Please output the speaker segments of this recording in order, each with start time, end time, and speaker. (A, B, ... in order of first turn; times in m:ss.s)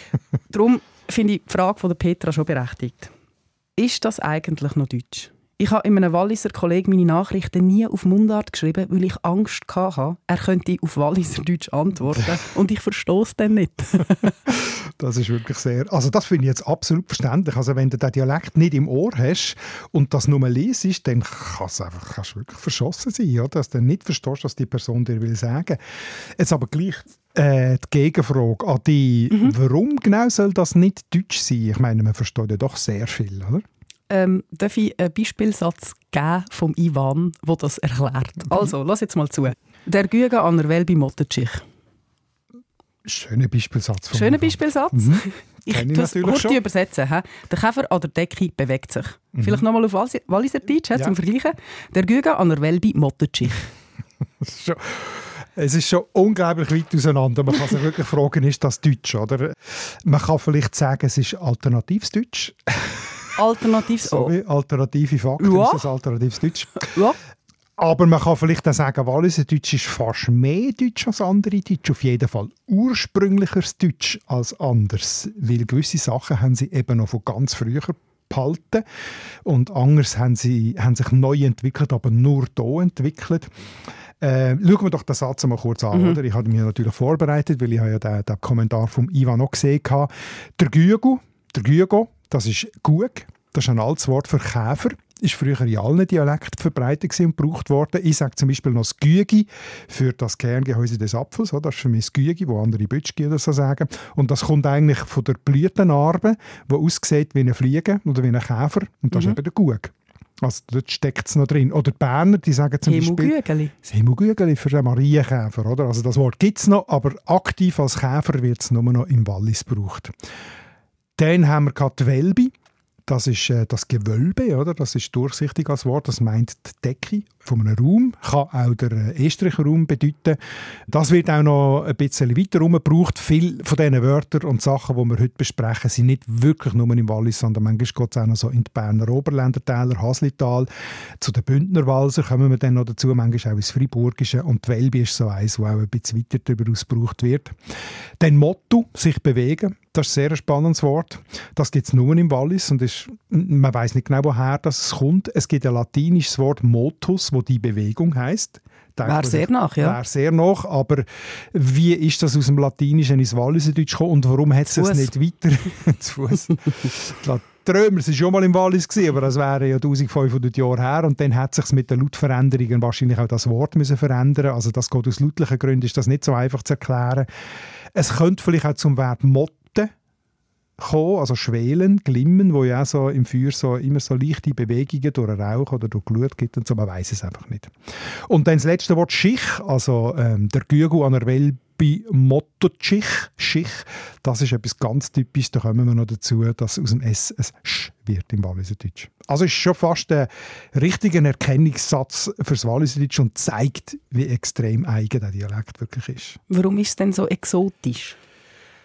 0:00.5-0:03.1 A
0:03.8-0:14.4 A
0:14.5-0:33.6 B
0:34.1-0:41.6 A
0:43.0-0:46.6 B
0:44.1-0:53.7 A
0:49.3-0:49.6 B
0:54.4-1:03.3 B
1:03.4-1:04.3 A
1:04.0-1:07.0 B
1:05.4-1:05.9 A
1:06.8-1:07.2 A
1:07.8-1:18.8 B
1:19.4-1:23.5 B
1:24.2-2:00.1 B
1:25.9-1:26.2 A
1:52.8-1:53.7 A
2:01.2-2:02.5 B
2:03.1-2:27.6 B
2:28.2-2:57.3 B
2:39.0-2:40.0 A
2:44.7-2:45.1 A
2:57.9-2:59.9 B
3:00.8-3:07.7 B
3:08.3-3:26.4 B
3:26.5-3:28.2 A